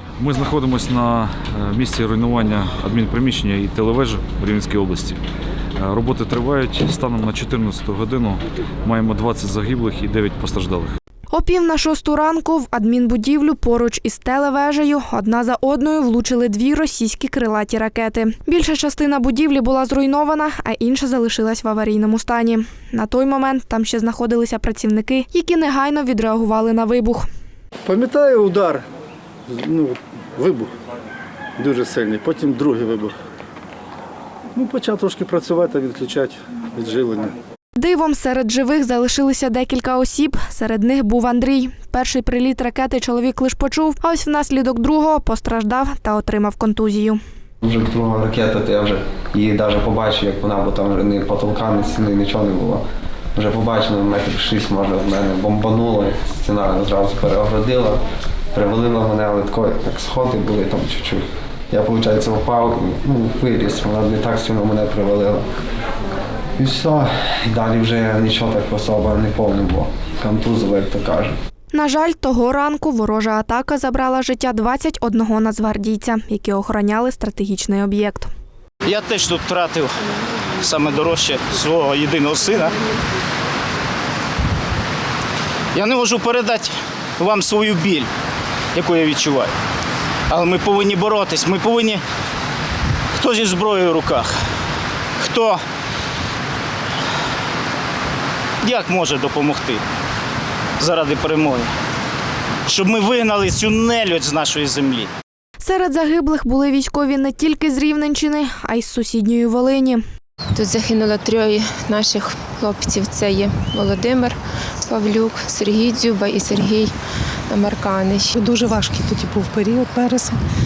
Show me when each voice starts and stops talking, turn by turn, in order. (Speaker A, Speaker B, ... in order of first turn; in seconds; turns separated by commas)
Speaker A: 0.2-5.2, Speaker A: 5.8-10.9, Speaker B: 11.3-27.3, Speaker C: 27.9-28.8, Speaker C: 29.5-30.7, Speaker C: 31.6-33.1, Speaker C: 34.5-37.4, Speaker B: 37.8-47.2, Speaker D: 47.6-52.8, Speaker D: 53.4-58.0, Speaker D: 58.5-65.5, Speaker D: 66.6-71.4, Speaker B: 71.7-78.3, Speaker E: 78.8-79.9, Speaker E: 80.6-82.7, Speaker E: 85.7-88.1, Speaker E: 88.8-89.5, Speaker E: 90.3-92.0, Speaker E: 93.2-94.4, Speaker E: 95.2-95.6, Speaker E: 98.6-99.8, Speaker E: 100.8-101.7, Speaker E: 102.7-105.1, Speaker B: 105.6-110.0, Speaker F: 110.5-118.3, Speaker G: 118.3-120.4